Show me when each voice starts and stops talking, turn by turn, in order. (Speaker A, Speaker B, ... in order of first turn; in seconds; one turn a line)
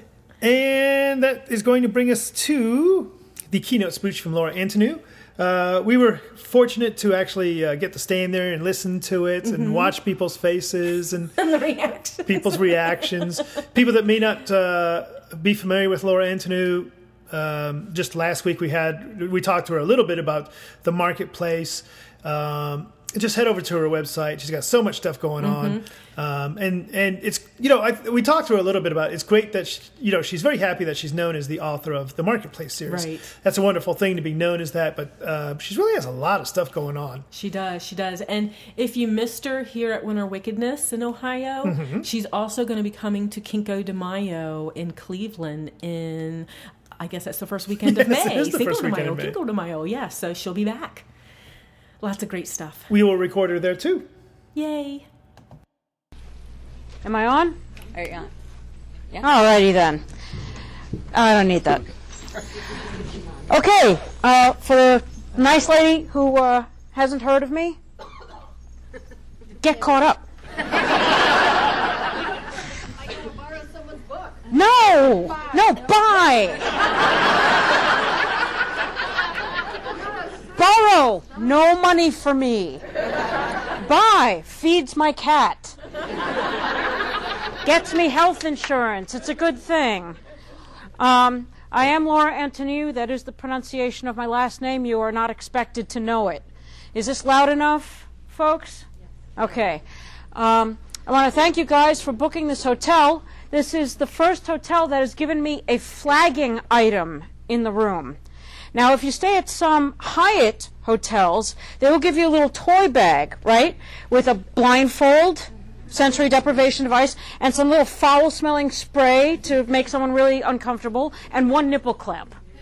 Speaker A: 0.4-11.3
Speaker B: 9.4-9.9
Speaker B: 11.4-13.4
Speaker A: 12.2-37.2
Speaker B: 25.4-25.9
Speaker B: 32.9-33.3
Speaker B: 37.3-51.1
Speaker A: 41.6-42.1
Speaker A: 47.8-49.4
Speaker B: 52.0-52.9
Speaker A: 52.9-54.1
Speaker B: 54.5-55.0
Speaker C: 57.0-58.3
Speaker C: 59.1-60.0
Speaker C: 61.1-61.9
Speaker C: 63.5-67.8
Speaker C: 69.6-70.2
Speaker C: 74.5-76.7
Speaker C: 80.5-82.8
Speaker C: 83.8-85.8
Speaker C: 87.6-90.2
Speaker C: 91.0-108.2
Speaker C: 108.7-122.3